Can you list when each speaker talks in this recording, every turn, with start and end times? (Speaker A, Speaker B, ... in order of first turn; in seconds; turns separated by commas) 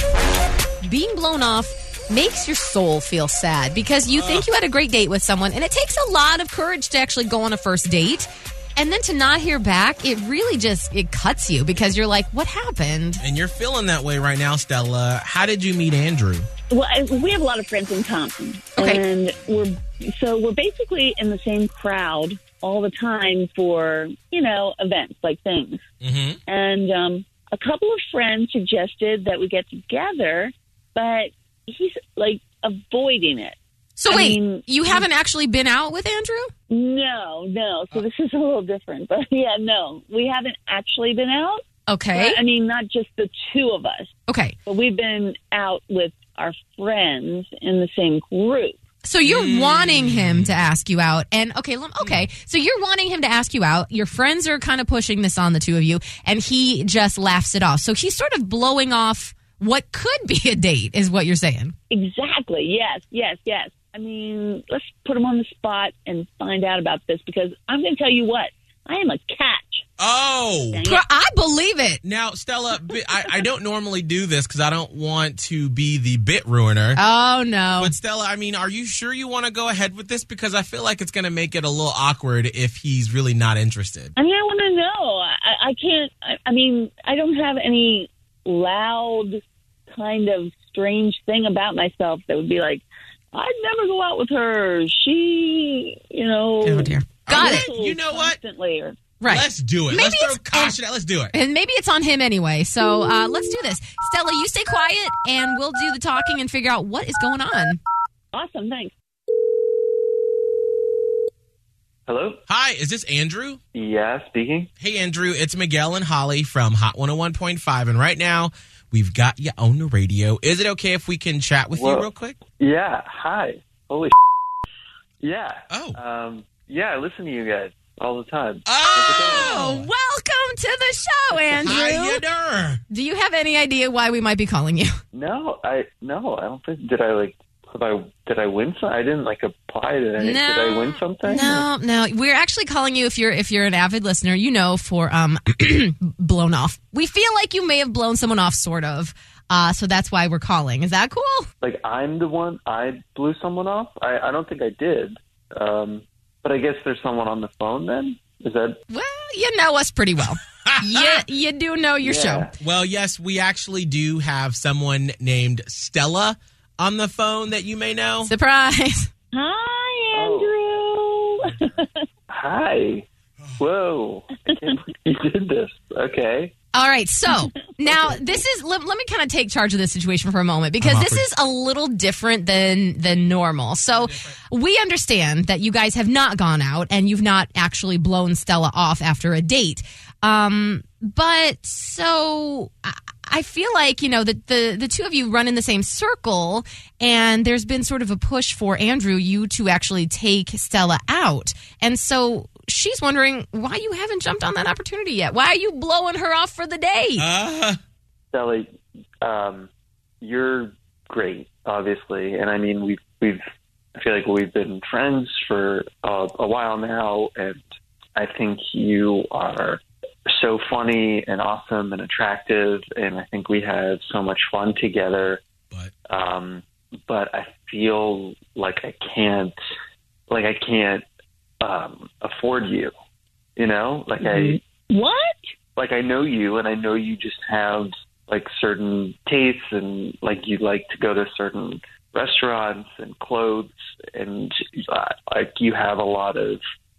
Speaker A: 0.8-13.2, Speaker B: 4.1-4.5, Speaker B: 13.2-16.5, Speaker C: 16.7-25.8, Speaker A: 18.8-19.0, Speaker B: 26.0-26.4, Speaker C: 26.4-35.1, Speaker A: 34.0-36.5, Speaker C: 36.7-44.1, Speaker A: 41.9-42.4, Speaker A: 44.3-44.5, Speaker C: 44.6-48.8, Speaker A: 49.0-61.7, Speaker B: 49.2-50.7, Speaker B: 52.0-52.3, Speaker C: 61.9-69.8, Speaker B: 70.0-70.8, Speaker C: 70.7-71.0, Speaker A: 70.8-72.0, Speaker B: 72.0-77.0, Speaker A: 76.9-77.9, Speaker B: 77.8-84.1, Speaker C: 84.2-99.0, Speaker A: 96.6-97.7, Speaker B: 97.3-98.4, Speaker A: 99.2-100.8, Speaker B: 99.3-101.3, Speaker A: 101.3-107.8, Speaker C: 108.3-108.9, Speaker D: 112.0-112.4, Speaker B: 112.5-113.6, Speaker D: 113.7-114.7, Speaker B: 114.8-122.4, Speaker D: 121.7-124.1, Speaker D: 125.2-129.5, Speaker B: 125.7-126.0, Speaker B: 128.7-129.9, Speaker A: 128.9-132.2, Speaker B: 131.5-132.8, Speaker A: 132.9-134.9, Speaker D: 135.1-141.7, Speaker A: 140.2-151.5, Speaker D: 151.6-158.8, Speaker A: 158.9-162.5, Speaker B: 160.2-161.2, Speaker D: 162.0-162.6, Speaker B: 162.6-168.3, Speaker A: 168.2-169.1, Speaker C: 169.3-172.0, Speaker D: 170.1-170.5, Speaker D: 172.3-173.1, Speaker D: 173.6-176.5, Speaker C: 174.4-174.8, Speaker A: 176.7-207.2, Speaker C: 177.3-178.2, Speaker D: 178.0-178.3, Speaker B: 180.8-181.2, Speaker B: 183.9-184.4, Speaker B: 207.2-207.8, Speaker D: 208.3-208.7, Speaker D: 209.2-209.7, Speaker D: 210.2-213.4, Speaker D: 213.9-217.6, Speaker D: 218.2-225.4, Speaker D: 226.1-229.6, Speaker D: 230.3-231.0, Speaker D: 231.6-232.9, Speaker D: 233.6-234.6, Speaker C: 234.2-235.4, Speaker D: 235.8-246.6